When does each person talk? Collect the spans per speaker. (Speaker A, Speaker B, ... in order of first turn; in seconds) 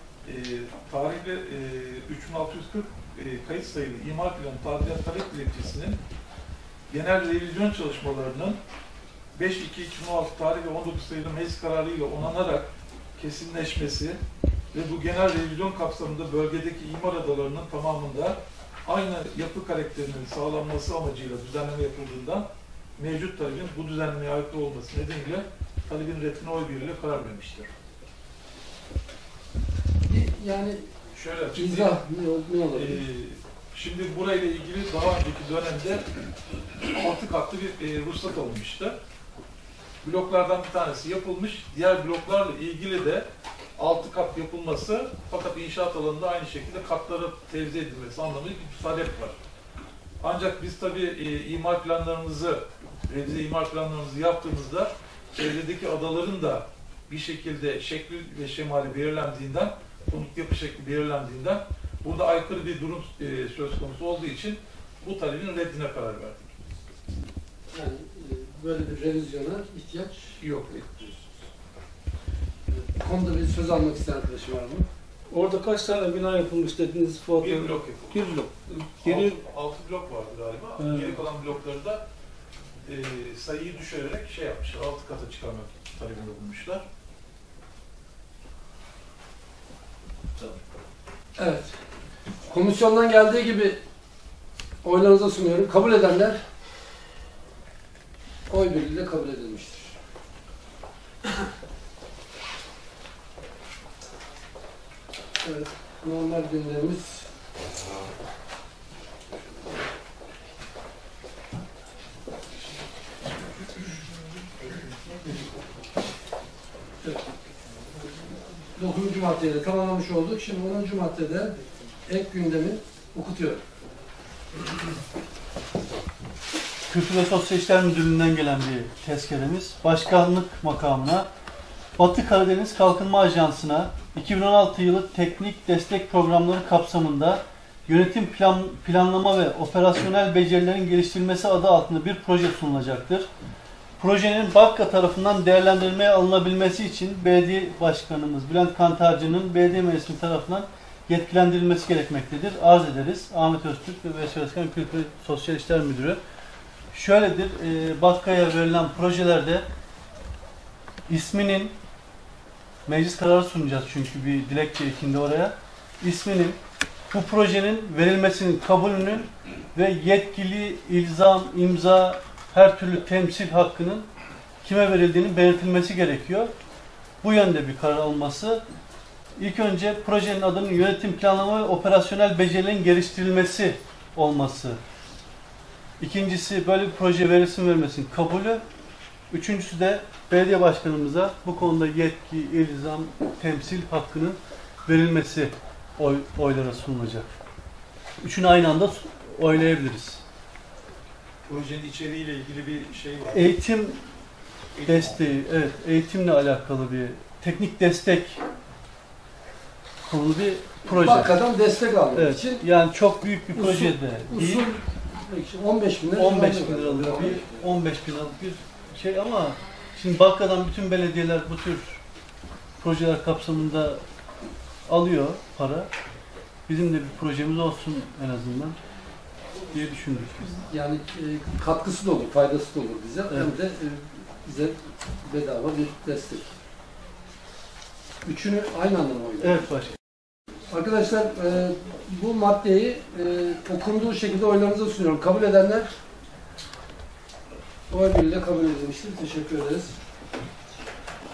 Speaker A: 0.2-6.0, 6.9-8.6, 9.3-14.2, 14.7-27.7, 31.1-32.0, 32.7-36.0, 36.9-39.0, 40.0-43.2, 43.8-49.4, 50.2-66.4, 70.4-71.2, 77.4-78.4, 79.0-82.0, 82.8-86.8, 201.4-203.5, 204.8-205.2
Speaker B: 30.1-30.9, 31.5-33.1, 67.7-70.4, 72.7-74.9, 91.4-91.7, 92.5-93.8, 94.8-96.4, 98.5-99.9, 105.4-107.2, 118.8-121.5, 122.1-123.6, 210.8-212.6, 213.5-217.4, 230.7-236.5, 238.2-239.6, 240.7-245.9, 247.9-249.9
Speaker C: 75.3-79.4, 80.8-81.2
Speaker D: 126.9-131.3, 132.0-143.3, 144.0-156.2, 156.9-159.7, 161.1-161.8, 162.8-166.6, 167.1-174.1, 174.6-176.5, 177.2-178.6, 179.4-184.8, 186.0-188.6, 189.3-197.3, 198.2-200.2, 203.3-204.0, 204.8-208.4, 210.1-211.4, 212.1-214.7, 216.2-222.0, 222.8-224.0, 224.9-225.9, 226.7-228.8, 229.6-230.6, 239.4-240.0